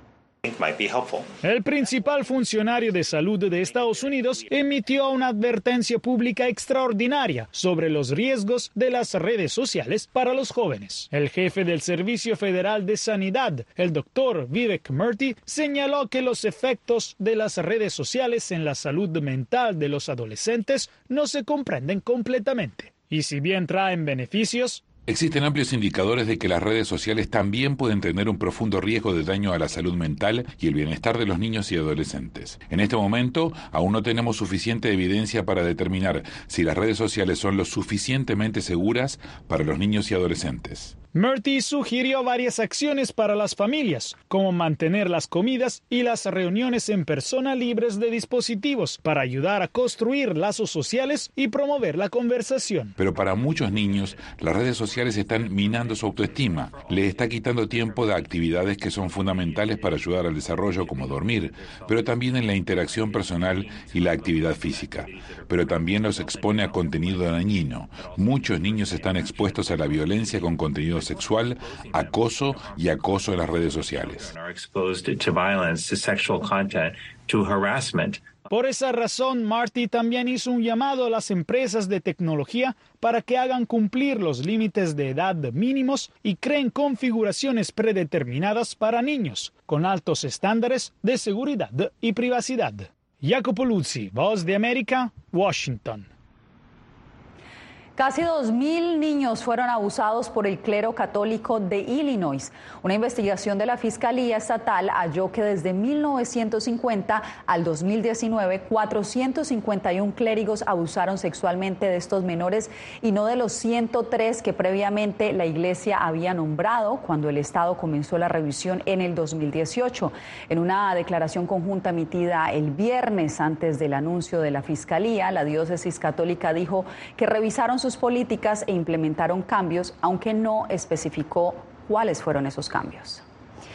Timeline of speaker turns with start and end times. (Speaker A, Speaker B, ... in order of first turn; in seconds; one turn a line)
Speaker A: 1.4-24.8
Speaker B: 25.1-41.0
Speaker A: 41.1-53.0
Speaker B: 53.0-74.3
Speaker A: 78.5-96.1
Speaker C: 98.0-133.2